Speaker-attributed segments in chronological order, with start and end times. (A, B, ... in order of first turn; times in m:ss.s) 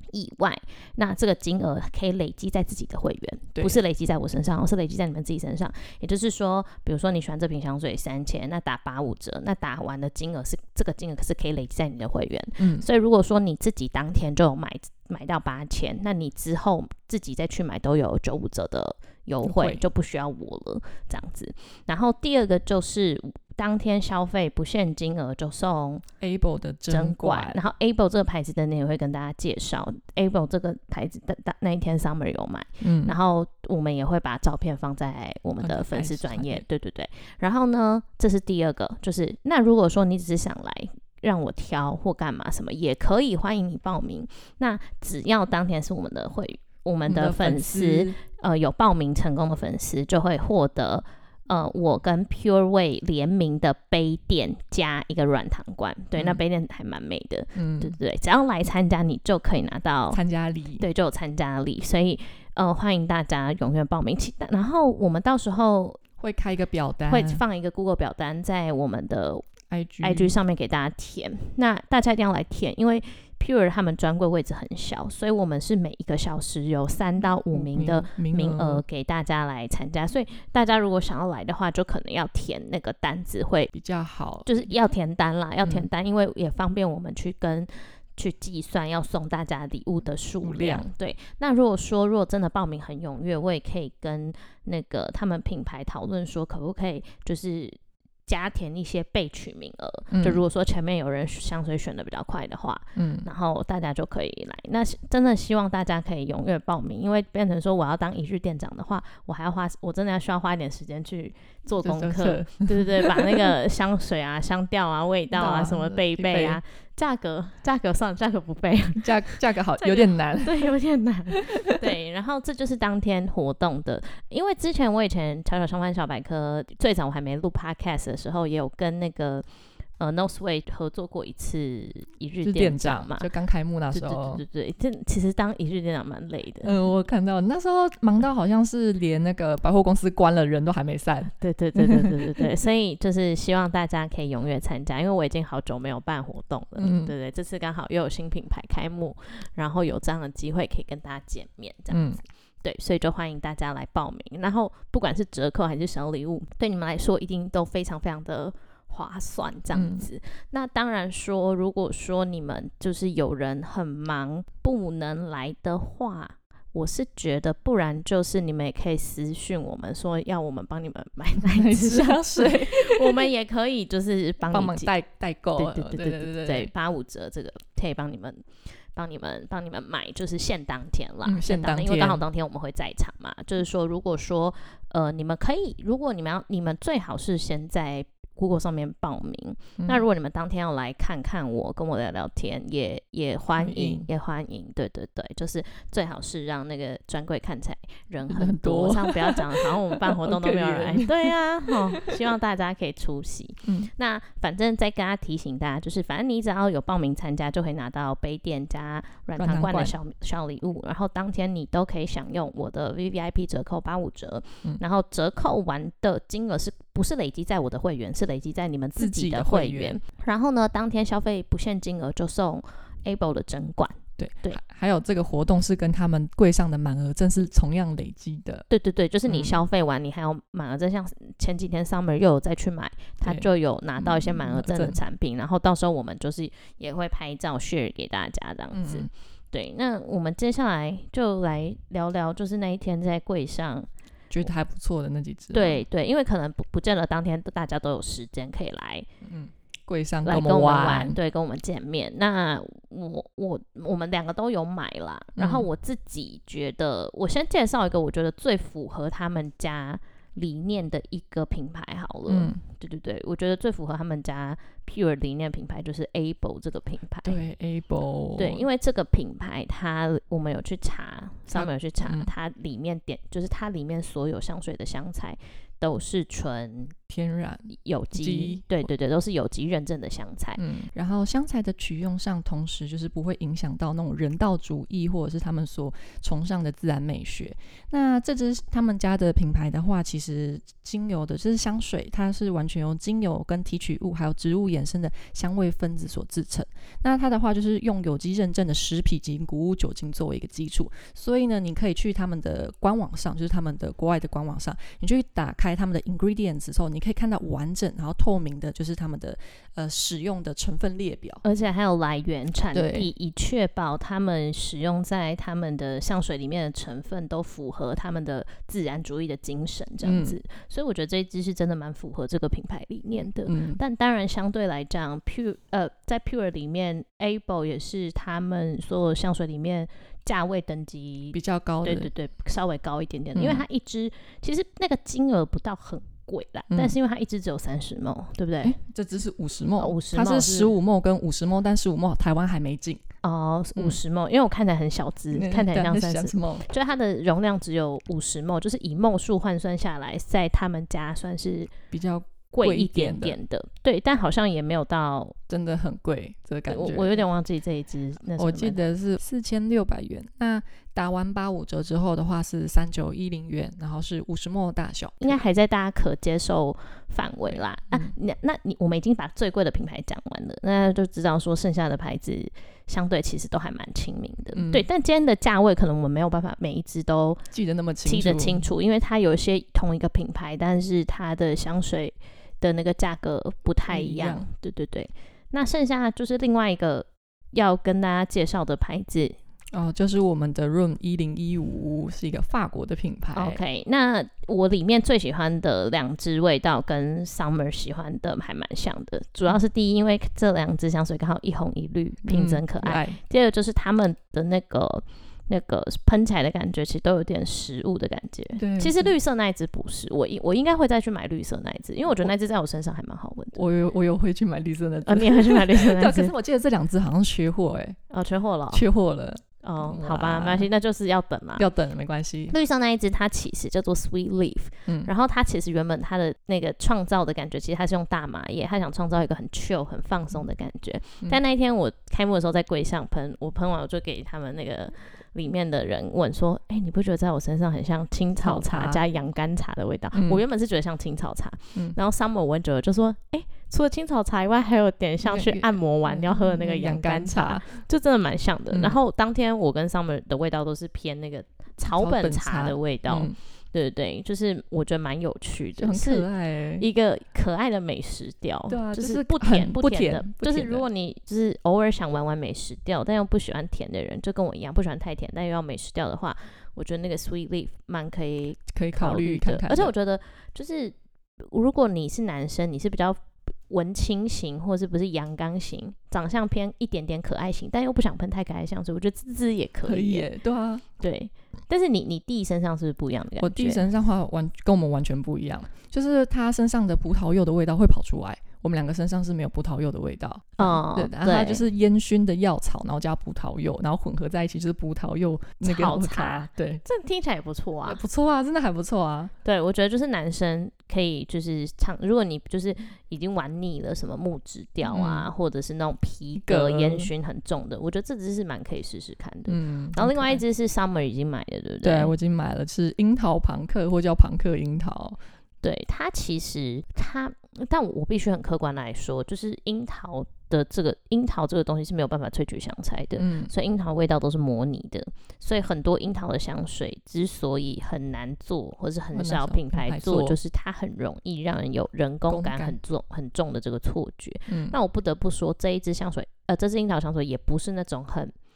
0:00.1-0:26.0 A
0:03.6-0:03.8 B
0:12.6-0:12.9 B
0:19.4-0:19.8 B
0:26.2-0:27.6 B
0:26.9-1:00.2 A
0:32.8-0:33.2 B
0:35.6-0:36.6 B
0:47.1-0:48.2 B
0:57.6-0:58.0 B
1:00.1-1:00.8 B
1:00.8-1:06.0 A
1:06.2-1:07.4 B
1:07.1-1:09.4 A
1:09.7-1:10.4 B
1:10.0-1:23.7 A
1:17.5-1:18.8 B
1:23.7-1:24.6 B
1:24.5-2:09.4 A
1:30.4-1:30.9 B
1:40.1-1:40.4 B
1:43.0-1:43.3 B
1:51.8-1:53.5 B
1:55.3-1:56.6 B
1:59.0-2:00.7 B
2:01.3-2:01.8 B
2:10.0-2:13.3 A
2:12.4-2:14.4 B
2:13.9-2:16.8 A
2:16.6-2:22.4 B
2:21.4-2:32.1 A
2:26.8-2:27.1 B
2:31.9-2:32.2 B
2:32.6-2:54.9 A
2:39.7-2:40.1 B
2:51.4-2:53.3 B
2:54.5-2:56.7 B
2:55.6-3:44.6 A
3:01.2-3:02.2 B
3:09.8-3:10.0 B
3:13.6-3:14.1 B
3:18.3-3:22.2 B
3:23.6-3:23.9 B
3:29.4-3:30.0 B
3:39.0-3:40.0 B
3:44.2-3:48.7 B
3:48.7-4:03.9 A
3:49.3-3:49.6 B
3:53.2-3:55.0 B
3:58.7-3:59.1 B
4:04.3-4:05.8 B
4:05.5-4:09.1 A
4:09.2-4:11.2 B
4:10.3-4:27.4 A
4:15.4-4:15.7 B
4:22.3-4:22.6 B
4:27.2-4:28.6 B
4:28.4-4:36.9 A
4:31.5-4:32.3 B
4:37.1-4:38.7 B
4:37.7-4:40.6 A
4:40.6-5:11.4 B
5:11.4-5:38.8 A
5:12.7-5:13.1 B
5:20.0-5:20.4 B
5:23.4-5:23.8 B
5:31.3-5:32.1 B
5:33.4-5:33.6 B
5:38.6-5:43.0 B
5:39.8-5:40.7 A
5:43.2-5:51.7 A
5:45.3-5:46.7 B
5:51.9-5:53.4 B
5:52.5-5:55.4 A
5:55.5-5:57.2 B
5:56.7-5:58.8 A
5:58.4-6:05.4 B
6:05.2-6:17.4 A
6:07.5-6:08.1 B
6:14.6-6:14.8 B
6:17.5-6:18.7 B
6:18.0-6:29.4 A
6:23.9-6:24.5 B
6:29.7-6:33.6 B
6:33.4-6:53.6 A
6:42.2-6:43.2 B
6:48.6-6:49.1 B
6:53.5-6:58.0 B
6:55.1-6:56.3 A
6:58.1-6:58.8 A
6:58.7-7:00.7 B
6:59.6-7:01.6 A
7:01.6-7:02.6 B
7:02.5-7:36.3 A
7:18.4-7:19.0 B
7:20.1-7:20.4 B
7:25.2-7:27.7 B
7:28.7-7:29.0 B
7:31.9-7:33.4 B
7:35.8-7:36.8 B
7:36.8-8:00.3 A
7:38.7-7:40.8 B
7:48.7-7:49.9 B
7:59.8-8:00.8 B
8:01.0-8:03.9 A
8:03.4-8:16.8 B
8:10.6-8:11.6 A
8:15.6-8:18.0 A
8:17.8-8:19.3 B
8:19.4-8:32.1 A
8:24.8-8:25.3 B
8:26.4-8:27.1 B
8:29.5-8:30.4 B
8:31.8-8:35.2 B
8:35.6-8:58.3 A
8:43.2-8:43.5 B
8:49.1-8:50.4 B
8:52.3-8:52.8 B
8:54.5-8:54.8 B